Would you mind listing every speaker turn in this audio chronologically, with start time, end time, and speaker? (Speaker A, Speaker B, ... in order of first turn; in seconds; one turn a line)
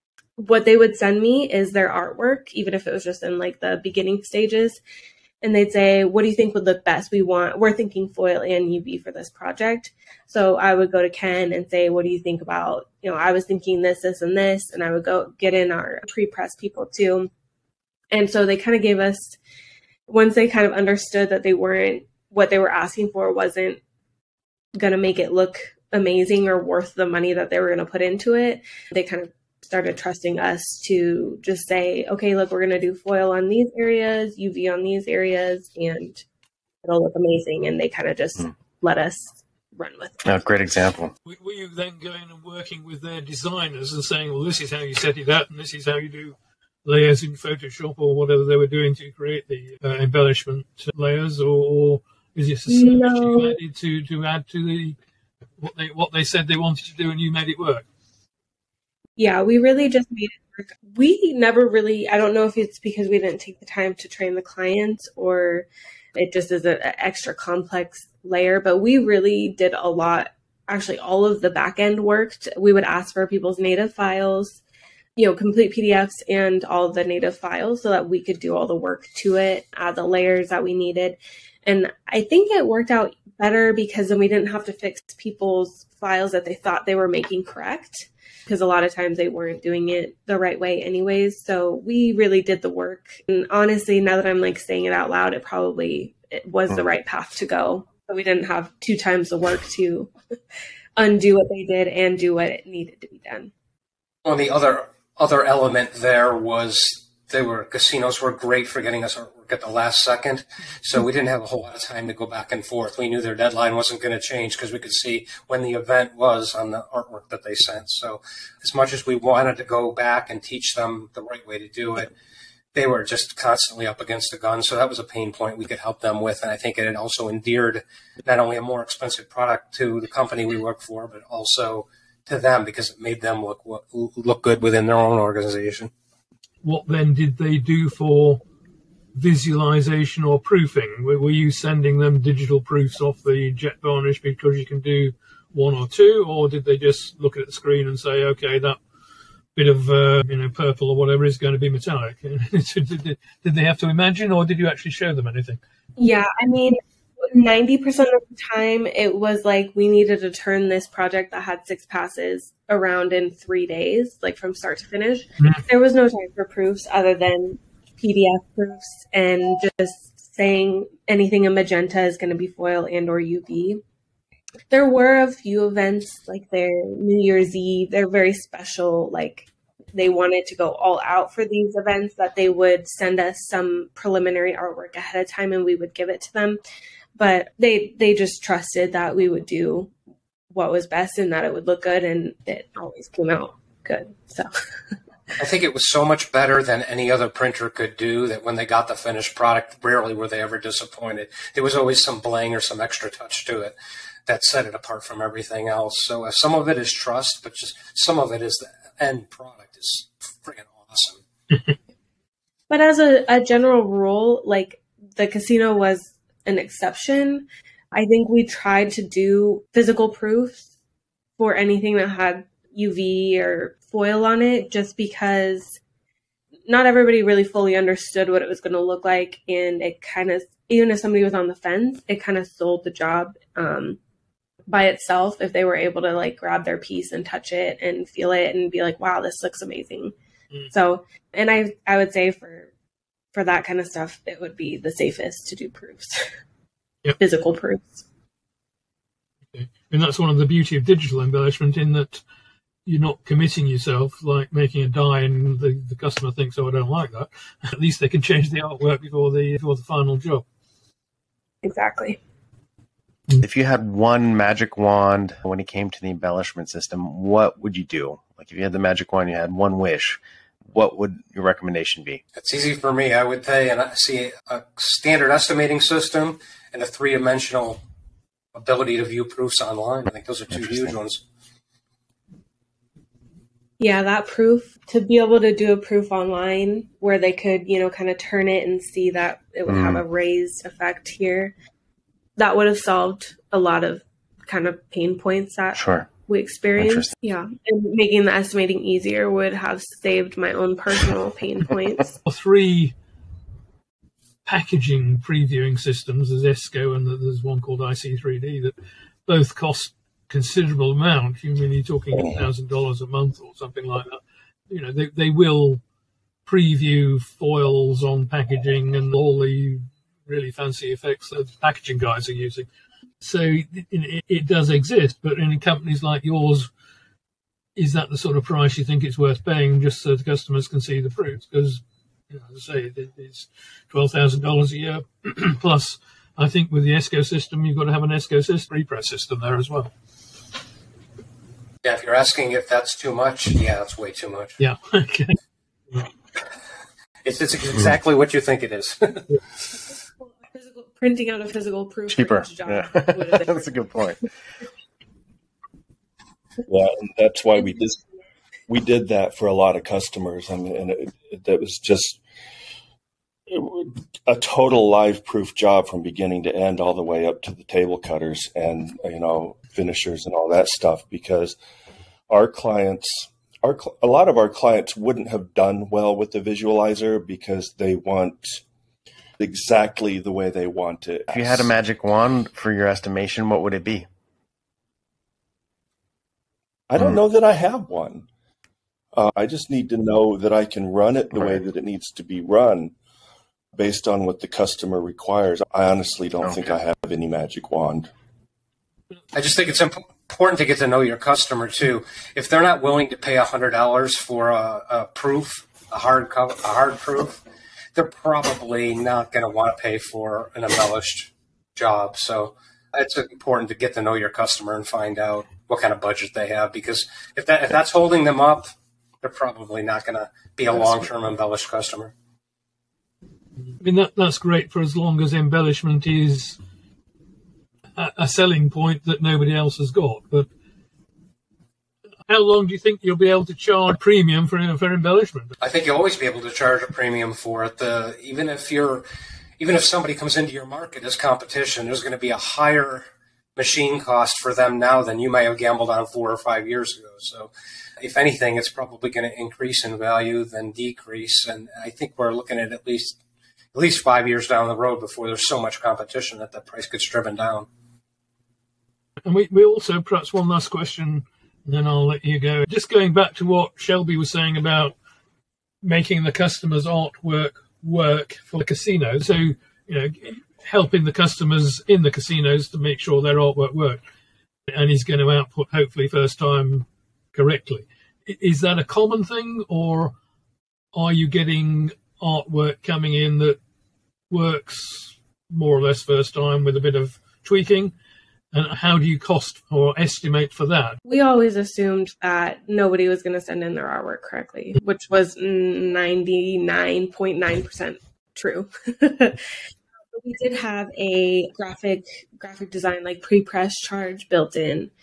Speaker A: 0.4-4.8
Speaker A: 5.4-17.3
Speaker A: 18.1-19.4
Speaker A: 20.1-23.8
Speaker A: 24.8-36.2
Speaker A: 36.8-40.4
Speaker B: 40.2-41.1
Speaker C: 41.2-55.0
Speaker A: 52.7-53.6
Speaker C: 55.6-57.9
Speaker A: 59.2-74.6
Speaker A: 75.2-100.1
Speaker A: 101.0-103.5
Speaker D: 104.2-122.1
Speaker D: 122.7-135.9
Speaker C: 136.6-138.4
Speaker C: 139.2-148.8
Speaker C: 149.6-155.6
Speaker A: 156.0-173.8
Speaker A: 174.7-186.6
Speaker A: 187.2-189.9
Speaker A: 190.5-194.5
Speaker D: 195.4-203.8
Speaker D: 204.3-211.2
Speaker A: 212.7-220.7
Speaker A: 221.4-225.8
Speaker A: 226.7-234.0
Speaker A: 234.7-240.1
Speaker A: 240.7-242.7
Speaker A: 243.3-246.3
Speaker A: 247.2-248.1
Speaker C: 249.5-252.2
Speaker C: 252.9-260.4
Speaker A: 261.6-262.2
Speaker B: 263.4-270.2
Speaker B: 270.7-272.2
Speaker D: 272.4-277.8
Speaker D: 278.6-281.2
Speaker A: 283.8-291.5
Speaker B: 289.7-290.0
Speaker A: 292.4-302.1
Speaker B: 295.8-296.1
Speaker B: 296.8-297.1
Speaker C: 302.2-302.9
Speaker C: 304.4-308.7
Speaker C: 309.3-315.8
Speaker C: 316.5-322.7
Speaker C: 323.2-326.7
Speaker C: 327.8-339.9
Speaker D: 341.8-344.6
Speaker C: 344.6-345.4
Speaker D: 347.2-349.3
Speaker A: 350.5-353.9
Speaker B: 352.1-354.3
Speaker E: 356.6-358.0
Speaker E: 358.7-362.2
Speaker E: 363.5-371.6
Speaker E: 372.3-378.6
Speaker E: 379.4-381.7
Speaker B: 381.3-384.1
Speaker E: 386.9-388.3
Speaker E: 389.1-392.9
Speaker E: 393.7-398.1
Speaker B: 396.4-396.7
Speaker D: 399.3-407.4
Speaker D: 407.9-422.1
Speaker C: 423.8-426.6
Speaker C: 428.0-430.5
Speaker C: 432.3-435.5
Speaker D: 435.6-439.1
Speaker D: 439.6-453.2
Speaker D: 453.7-457.7
Speaker C: 459.2-464.9
Speaker C: 465.8-474.0
Speaker C: 474.7-480.1
Speaker C: 480.9-483.6
Speaker C: 484.3-487.9
Speaker C: 488.5-491.0
Speaker A: 491.1-499.4
Speaker A: 500.1-504.9